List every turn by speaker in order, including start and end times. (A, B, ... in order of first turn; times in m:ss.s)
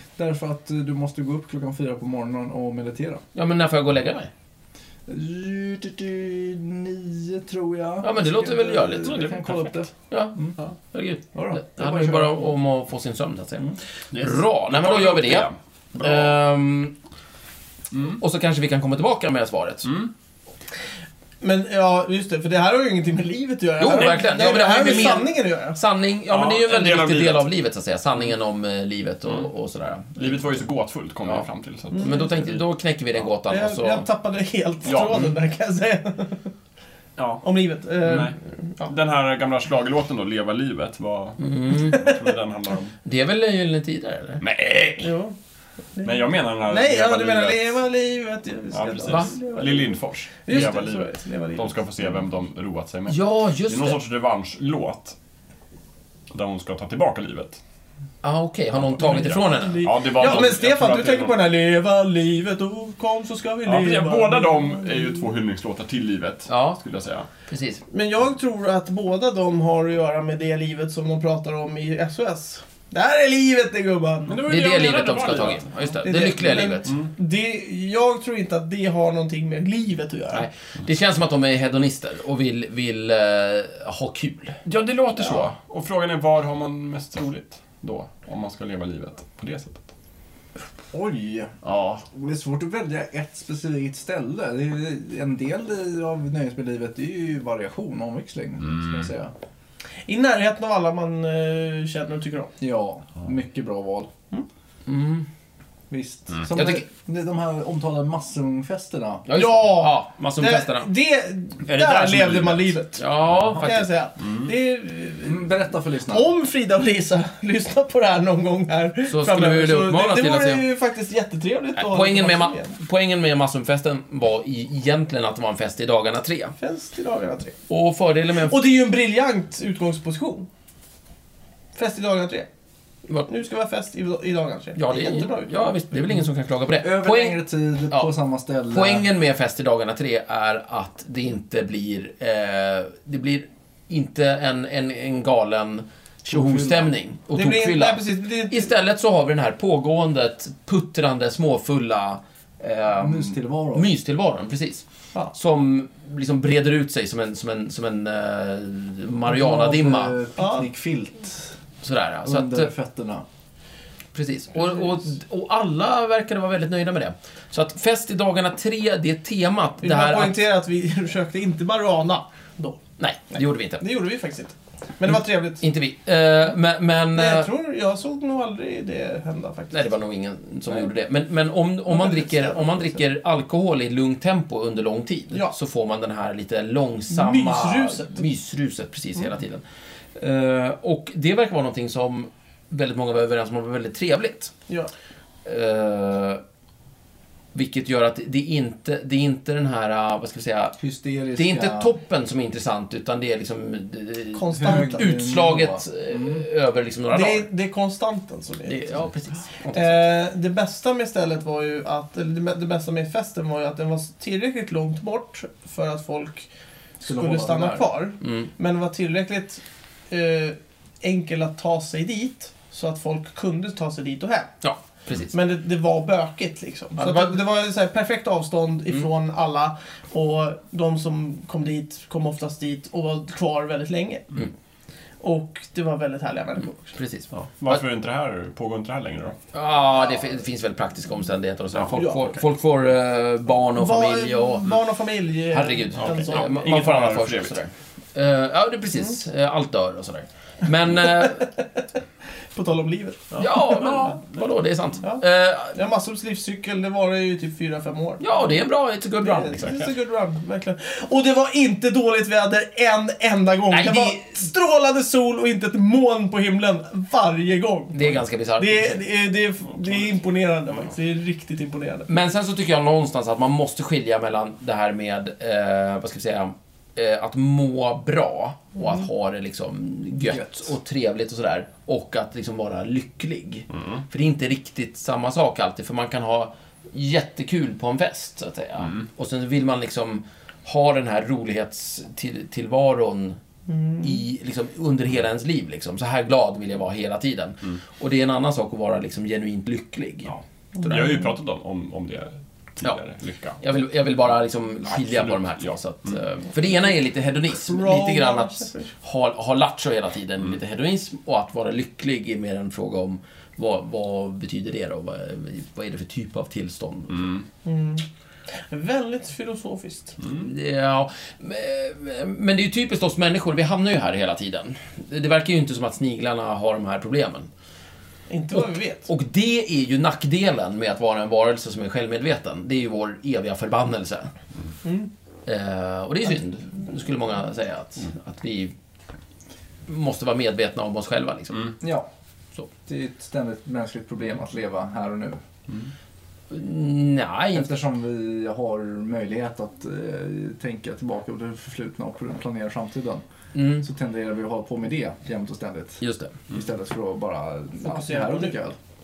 0:00.2-0:03.2 A
0:03.4-0:04.3 B
0:05.1-0:10.5 A
0:08.0-0:09.4 B
0:10.1-0:10.4 B
0:10.9-0:16.9 B
0:11.3-0:12.5 A
0:14.1-0:16.3 C
0:17.9-0:18.2 C
0:18.2-0:19.9 B
0:21.4-0:25.8 D
0:23.8-0:30.5 B
0:26.3-0:27.5 C
0:30.2-0:32.2 C
0:31.9-0:32.3 D
0:32.0-0:34.0 B
0:33.5-0:36.5 D
0:34.8-0:35.4 C
0:37.2-0:37.4 C
0:37.4-0:38.9 D
0:38.0-0:38.4 C
0:38.9-0:43.0 C
0:41.4-0:42.0 B
0:43.0-0:44.4 B
0:44.4-0:45.1 C
0:45.0-0:45.4 D
0:46.0-0:51.8 D
0:46.0-0:47.7 C
0:48.7-0:55.2 C
0:49.1-0:49.3 B
0:53.1-0:54.0 B
0:56.3-0:57.6 C
0:58.2-1:00.2 B
0:58.9-1:01.4 C
0:59.2-1:05.3 D
1:03.6-1:07.3 C
1:06.5-1:06.8 B
1:07.5-1:07.8 B
1:07.9-1:14.4 D
1:14.3-1:15.7 C
1:14.4-1:16.9 B
1:16.0-1:20.5 D
1:16.8-1:17.1 C
1:20.3-1:24.6 B
1:24.6-1:29.9 C
1:30.9-1:31.6 A
1:31.6-1:32.0 C
1:32.1-1:39.3 A
1:38.6-1:39.1 C
1:40.1-1:42.5 D
1:42.6-1:44.1 A
1:44.9-1:45.3 B
1:45.9-1:49.3 A
1:46.5-1:46.9 B
1:49.3-1:50.9 B
1:49.3-1:55.5 D
1:51.7-1:52.7 C
1:53.0-1:53.9 B
1:55.2-1:56.3 A
1:56.0-2:02.8 D
1:59.1-2:00.6 B
2:01.8-2:06.5 B
2:06.6-2:07.6 D
2:07.7-2:08.6 B
2:08.4-2:10.5 D
2:11.8-2:12.5 D
2:13.3-2:15.5 D
2:14.8-2:18.1 B
2:16.8-2:19.1 A
2:18.7-2:40.1 B
2:26.3-2:26.9 A
2:27.3-2:28.7 D
2:33.0-2:33.9 A
2:39.3-2:41.6 A
2:40.4-2:40.7 D
2:41.8-2:42.7 B
2:42.2-2:43.2 A
2:44.1-2:50.4 B
2:49.8-2:52.8 D
2:53.0-2:53.8 B
2:53.8-2:55.6 D
2:55.6-2:57.5 B
2:57.2-2:59.9 D
2:59.7-3:09.6 B
3:01.9-3:02.8 D
3:07.1-3:08.2 D
3:10.2-3:14.5 B
3:15.4-3:16.4 B
3:17.5-3:20.8 B
3:20.8-3:21.9 A
3:21.4-3:27.5 B
3:24.3-3:25.1 D
3:24.6-3:26.4 A
3:27.1-3:29.0 D
3:28.7-3:30.0 B
3:29.7-3:36.5 D
3:37.0-3:44.6 D
3:37.0-3:37.9 A
3:38.2-3:38.5 B
3:44.6-3:45.3 B
3:45.3-3:54.4 D
3:47.0-3:47.4 B
3:55.2-3:56.9 D
3:57.0-3:57.8 B
3:57.4-3:59.4 C
3:59.5-4:04.7 B
4:01.9-4:02.4 D
4:03.8-4:06.7 D
4:05.5-4:11.5 B
4:06.0-4:07.6 C
4:11.0-4:11.5 D
4:12.5-4:13.3 D
4:13.3-4:14.4 C
4:13.4-4:15.8 B
4:15.0-4:18.2 D
4:18.2-4:19.8 B
4:19.2-4:32.1 D
4:23.7-4:24.4 B
4:27.9-4:29.0 B
4:32.1-4:53.4 B
4:40.3-4:40.6 A
4:43.7-4:44.0 C
4:53.7-4:54.2 D
4:54.0-5:00.4 B
5:00.3-5:03.6 C
5:00.8-5:01.3 D
5:03.6-5:17.3 B
5:04.9-5:06.1 C
5:07.7-5:08.9 D
5:17.1-5:17.4 C
5:17.6-5:18.0 D
5:18.7-5:20.2 D
5:20.3-5:27.5 B
5:28.3-5:29.1 D
5:28.5-5:34.3 B
5:34.8-5:35.1 D
5:35.5-5:38.7 B
5:39.9-5:41.8 B
5:41.8-5:42.1 A
5:42.9-5:45.4 A
5:46.5-5:47.7 B
5:47.6-5:53.2 A
5:53.5-5:53.9 B
5:53.8-5:58.8 A
5:56.0-5:56.3 B
5:57.8-5:58.6 D